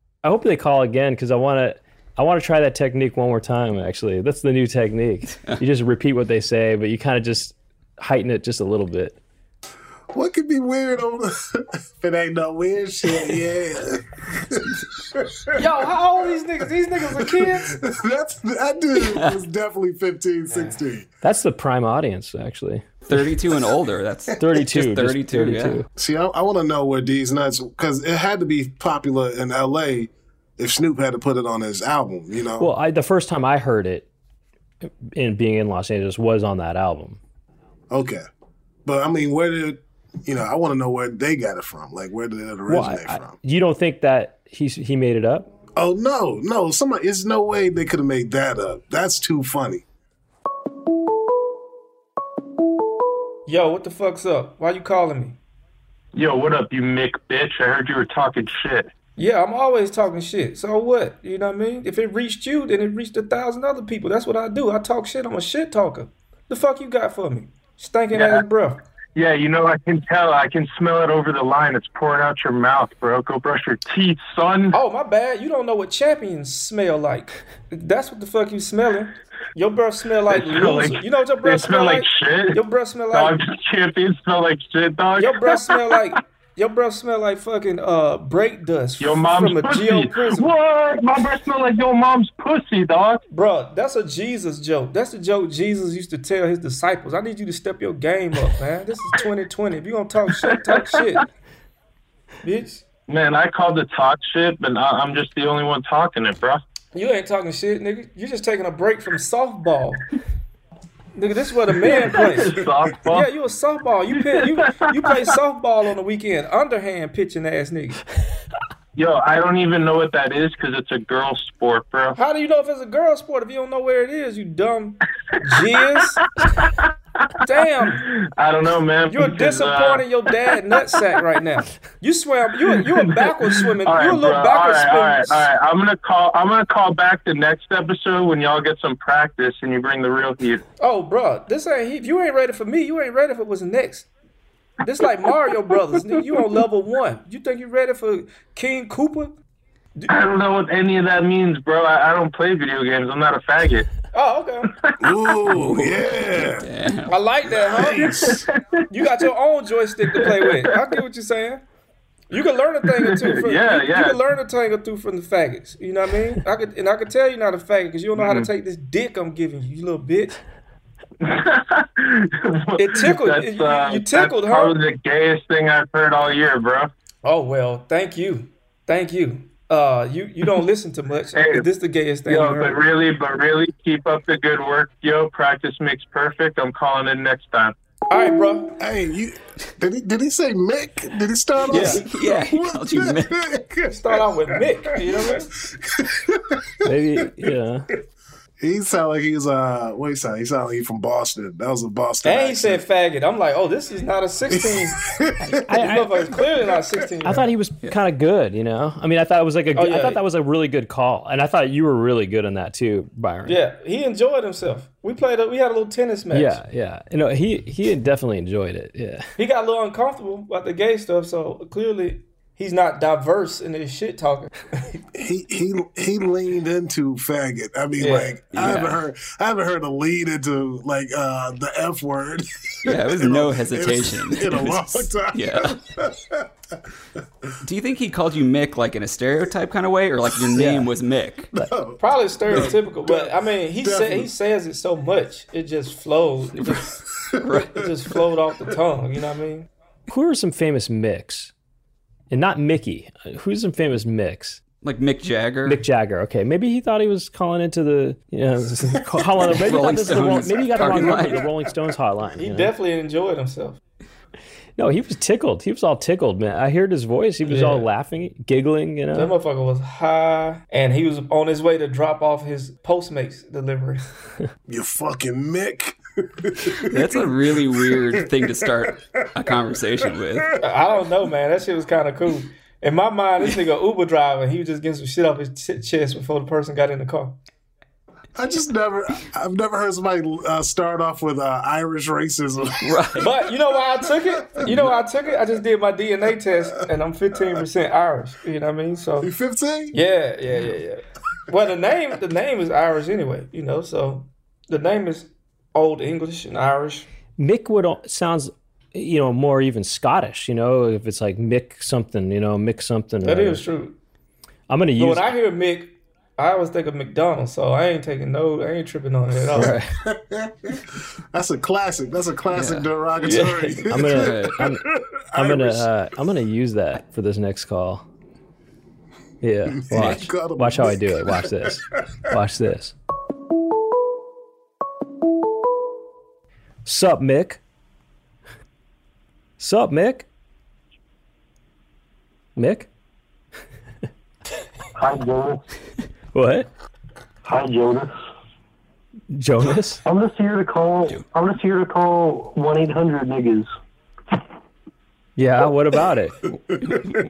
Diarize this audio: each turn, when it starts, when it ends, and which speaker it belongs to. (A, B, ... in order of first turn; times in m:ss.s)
0:00.2-0:09.2 A
0:10.1-0:15.7 B
0:15.5-0:17.8 C
0:17.1-0:21.1 B
0:19.1-0:19.3 D
0:21.2-0:23.0 A
0:23.1-0:25.8 D
0:24.4-0:25.8 A
0:26.0-0:32.7 B
0:32.6-0:34.1 A
0:34.8-0:37.2 A
0:37.9-0:38.2 B
0:38.8-0:43.4 B
0:42.7-0:45.5 A
0:45.7-0:49.8 B
0:53.4-0:55.4 C
0:56.1-0:58.9 E
0:59.2-1:08.8 C
1:08.1-1:08.4 E
1:09.1-1:14.8 E
1:14.7-1:23.4 C
1:20.3-1:22.6 E
1:23.1-1:25.8 E
1:25.2-1:30.5 C
1:29.0-1:33.2 E
1:33.3-1:41.2 C
1:40.7-1:41.0 E
1:42.4-1:42.8 C
1:43.1-1:46.6 E
1:46.9-1:50.0 C
1:51.1-1:58.0 C
1:51.9-1:53.3 E
1:54.1-1:55.1 E
1:59.0-2:02.2 E
2:02.1-2:06.2 C
2:07.4-2:08.0 C
2:07.9-2:10.0 E
2:09.1-2:15.5 C
2:12.8-2:20.6 E
2:20.8-2:24.1 C
2:24.8-2:29.4 C
2:30.1-2:33.9 E
2:34.1-2:34.7 C
2:35.0-2:36.7 B
2:35.6-2:37.1 D
2:37.1-2:38.3 C
2:37.4-2:38.4 B
2:38.9-2:41.6 C
2:40.2-2:40.6 E
2:42.3-2:50.4 C
2:42.9-2:44.2 E
2:48.2-2:48.5 E
2:51.2-2:56.9 E
2:52.8-2:54.8 C
2:57.2-3:02.8 C
3:01.3-3:01.6 E
3:02.2-3:07.7 E
3:08.1-3:08.7 C
3:08.8-3:17.4 B
3:11.7-3:13.3 D
3:11.7-3:12.0 C
3:13.9-3:15.5 C
3:16.8-3:17.9 A
3:18.6-3:22.8 B
3:22.2-3:25.0 C
3:24.5-3:27.0 B
3:25.4-3:26.2 A
3:25.7-3:27.5 C
3:27.2-3:33.6 A
3:29.7-3:30.2 C
3:33.4-3:36.6 C
3:36.3-3:39.3 A
3:39.4-3:44.9 C
3:45.1-3:56.5 B
3:48.0-3:48.4 C
3:48.5-3:49.0 D
3:52.8-3:55.8 D
3:57.6-4:01.5 D
4:01.5-4:04.3 B
4:02.0-4:07.0 C
4:07.2-4:07.7 B
4:07.4-4:07.7 D
4:07.7-4:09.7 C
4:10.1-4:11.5 A
4:12.3-4:14.6 A
4:14.8-4:15.8 D
4:15.6-4:22.7 A
4:19.5-4:21.5 D
4:22.4-4:23.8 C
4:24.8-4:29.3 A
4:27.4-4:27.9 C
4:29.1-4:34.0 C
4:34.7-4:39.5 B
4:36.8-4:40.5 D
4:40.6-4:47.4 C
4:48.3-4:53.1 B
4:52.8-4:53.3 D
4:53.2-4:59.3 C
4:59.2-5:00.0 B
4:59.9-5:07.1 C
5:07.4-5:13.6 A
5:13.2-5:14.0 C
5:14.7-5:15.3 A
5:15.0-5:19.7 C
5:19.5-5:20.0 A
5:19.5-5:25.9 B
5:22.5-5:22.9 D
5:23.2-5:23.8 C
5:23.9-5:28.0 A
5:24.1-5:24.7 D
5:29.4-5:32.9 A
5:29.7-5:31.8 B
5:36.8-5:37.6 A
5:39.6-5:40.3 A
5:42.6-5:42.9 A
5:45.0-5:45.6 F
5:46.3-5:46.7 A
5:47.4-5:48.1 F
5:49.3-5:50.0 A
5:50.0-5:53.7 F
5:55.4-5:56.5 A